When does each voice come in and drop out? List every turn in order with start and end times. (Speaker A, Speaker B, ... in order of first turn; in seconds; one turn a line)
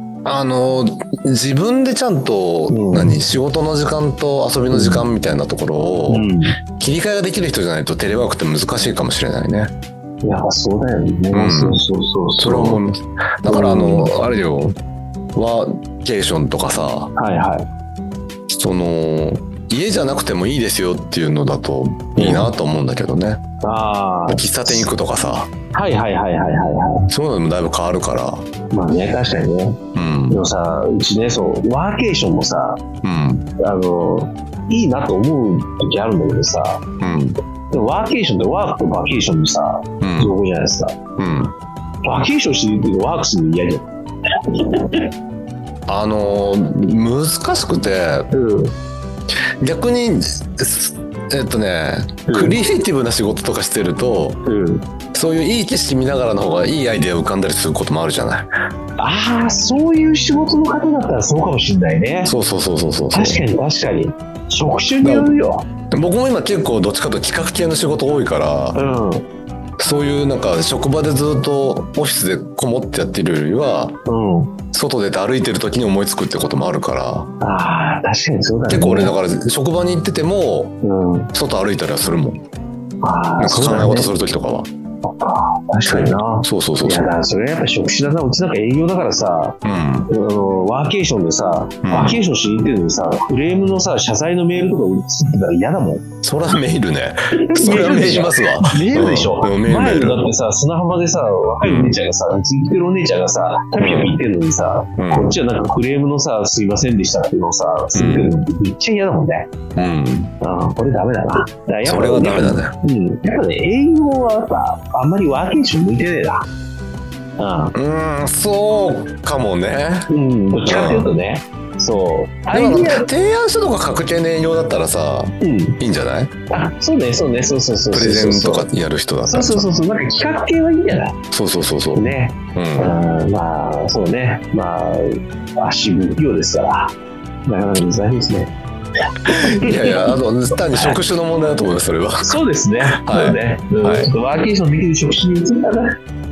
Speaker A: 0.2-9.7
Speaker B: 2.7-3.2
Speaker B: 4.7-5.0
Speaker B: 6.1-6.5
Speaker B: 10.2-12.8
Speaker A: 11.3-11.8
Speaker A: 12.4-14.8
Speaker B: 13.5-14.2
Speaker A: 15.3-17.1
Speaker B: 17.1-17.7
Speaker A: 18.5-23.4
Speaker B: 22.1-22.5
Speaker B: 23.6-24.9
Speaker A: 24.3-25.5
Speaker B: 25.7-27.1
Speaker A: 27.1-28.4
Speaker B: 28.7-32.8
Speaker A: 29.9-30.4
Speaker A: 33.0-33.5
Speaker B: 33.6-36.8
Speaker A: 37.0-37.4
Speaker B: 37.7-41.0
Speaker A: 40.0-40.3
Speaker A: 41.2-41.5
Speaker B: 42.0-43.9
Speaker B: 44.5-45.1
Speaker A: 45.9-48.3
Speaker B: 48.3-48.8
Speaker A: 49.6-54.4
Speaker B: 52.3-52.6
Speaker B: 54.5-54.8
Speaker A: 55.1-58.5
Speaker B: 59.0-62.3
Speaker A: 62.2-63.4
Speaker B: 63.1-65.7
Speaker A: 65.0-65.3
Speaker A: 65.9-68.8
Speaker B: 68.7-69.2
Speaker A: 69.8-74.0
Speaker B: 74.1-74.5
Speaker A: 74.7-77.3
Speaker B: 77.4-79.2
Speaker A: 78.7-80.8
Speaker B: 80.8-81.3
Speaker A: 81.3-82.4
Speaker B: 83.0-84.1
Speaker A: 83.4-84.7
Speaker B: 85.0-89.6
Speaker A: 85.8-87.1
Speaker A: 89.6-90.1
Speaker B: 90.1-96.0
Speaker A: 91.8-92.2
Speaker A: 96.2-100.2
Speaker B: 97.3-109.5
Speaker A: 101.6-101.9
Speaker A: 103.8-104.2
Speaker A: 105.0-105.4
Speaker A: 107.9-108.3
Speaker A: 109.8-110.3
Speaker B: 110.4-116.5
Speaker A: 111.8-112.7
Speaker B: 117.4-117.7
Speaker A: 117.7-120.1
Speaker B: 120.1-123.1
Speaker A: 120.7-121.1
Speaker A: 122.5-126.3
Speaker B: 125.4-125.8
Speaker B: 126.5-128.7
Speaker A: 127.9-129.7
Speaker B: 129.2-131.2
Speaker A: 131.3-132.9
Speaker B: 131.9-136.9
Speaker B: 137.5-138.5
Speaker B: 139.2-140.1
Speaker A: 139.3-144.1
Speaker B: 140.7-141.0
Speaker B: 142.2-145.9